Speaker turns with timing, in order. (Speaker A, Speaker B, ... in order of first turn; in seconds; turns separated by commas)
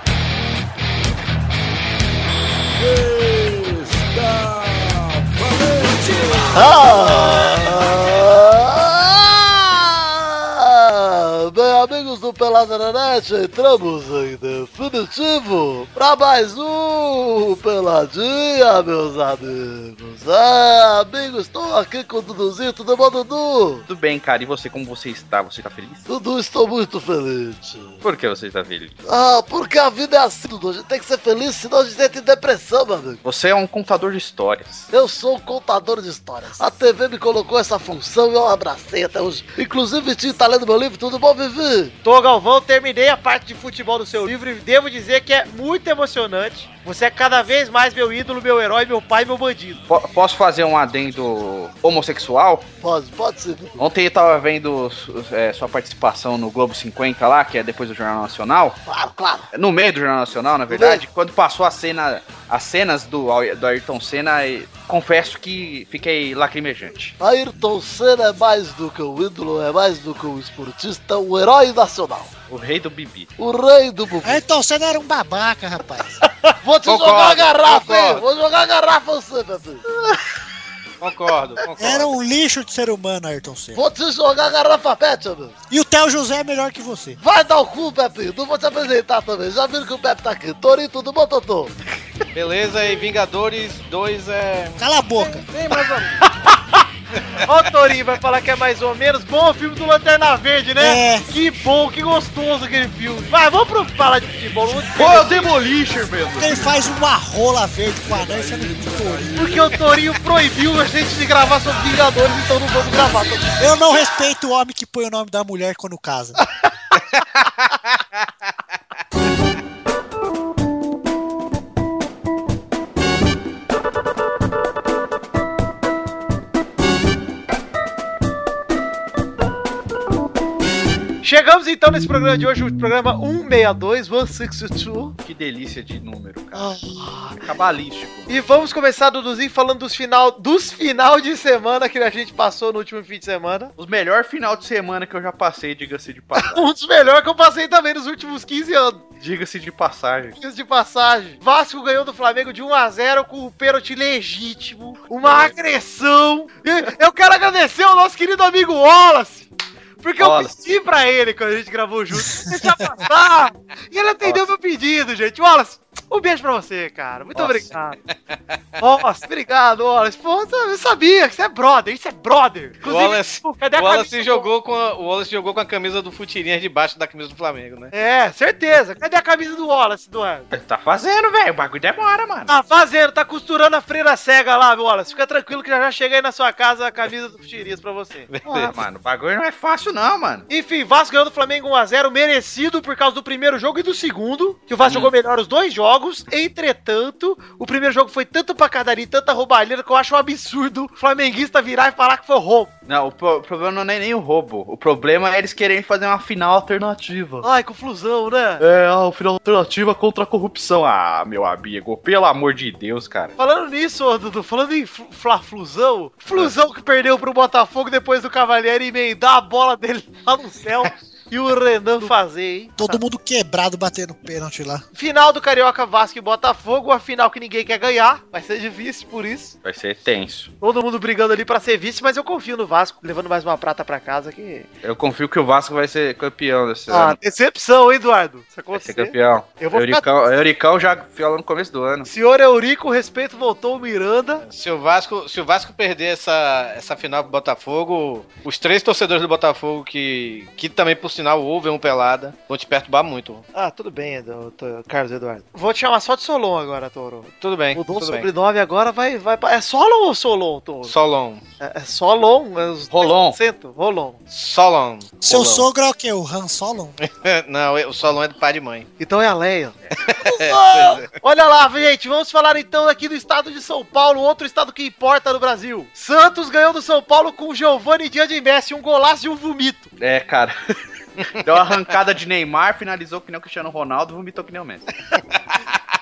Speaker A: 2.8-6.8, Speaker B: 6.5-23.9, Speaker C: 23.9-26.0, Speaker B: 26.1-28.0, Speaker C: 28.0-29.1, Speaker B: 29.1-33.2, Speaker C: 33.2-34.9, Speaker B: 34.9-41.9, Speaker D: 42.0-49.8, Speaker C: 49.9-52.6, Speaker B: 52.8-53.8, Speaker C: 53.8-58.8, Speaker B: 58.9-59.5, Speaker C: 59.5-67.1, Speaker B: 60.7-61.0, Speaker B: 67.2-72.3, Speaker C: 72.5-73.3, Speaker B: 73.4-74.4, Speaker E: 74.2-76.2, Speaker B: 76.6-79.8, Speaker C: 76.8-78.2, Speaker C: 79.9-80.2, Speaker F: 81.0-82.1, Speaker E: 81.8-83.8, Speaker B: 83.7-85.5, Speaker E: 85.7-87.2, Speaker B: 87.2-91.7, Speaker F: 92.3-96.3, Speaker E: 94.8-95.5, Speaker D: 97.4-105.5, Speaker E: 100.8-101.3, Speaker C: 105.0-106.7, Speaker E: 106.3-109.4, Speaker A: 108.0-109.8, Speaker D: 109.3-113.9, Speaker E: 113.6-116.4, Speaker D: 131.2-135.2, Speaker C: 135.2-136.8, Speaker D: 136.5-137.4, Speaker C: 137.4-138.3, Speaker D: 138.3-143.7, Speaker C: 143.8-146.7, Speaker D: 146.4-149.0, Speaker C: 149.2-150.4, Speaker D: 150.4-159.5, Speaker C: 155.2-155.5, Speaker D: 160.0-168.0, Speaker C: 160.2-160.5, Speaker E: 162.1-162.9, Speaker F: 167.4-168.6, Speaker D: 168.8-174.5, Speaker F: 172.8-177.9, Speaker D: 177.9-180.5, Speaker C: 180.5-182.5, Speaker D: 182.5-188.3, Speaker F: 188.3-188.7, Speaker C: 188.5-190.4, Speaker D: 190.5-202.7, Speaker C: 194.8-195.1, Speaker C: 202.9-207.4, Speaker D: 207.4-208.6, Speaker C: 208.6-213.3, Speaker D: 213.4-223.0, Speaker C: 216.3-216.5, Speaker E: 222.8-224.8, Speaker D: 224.9-229.5, Speaker C: 229.6-230.5, Speaker D: 230.6-234.7, Speaker C: 234.8-237.2, Speaker D: 236.9-240.0, Speaker C: 238.7-242.1, Speaker D: 242.1-244.4, Speaker F: 244.4-253.4, Speaker D: 253.5-260.9, Speaker F: 257.4-258.3, Speaker F: 260.9-261.4, Speaker D: 261.6-264.2, Speaker C: 262.9-263.4, Speaker F: 264.3-265.6, Speaker E: 265.2-267.0, Speaker F: 267.0-268.9, Speaker D: 269.0-279.9, Speaker F: 270.1-271.0, Speaker C: 280.0-280.8, Speaker C: 281.3-284.9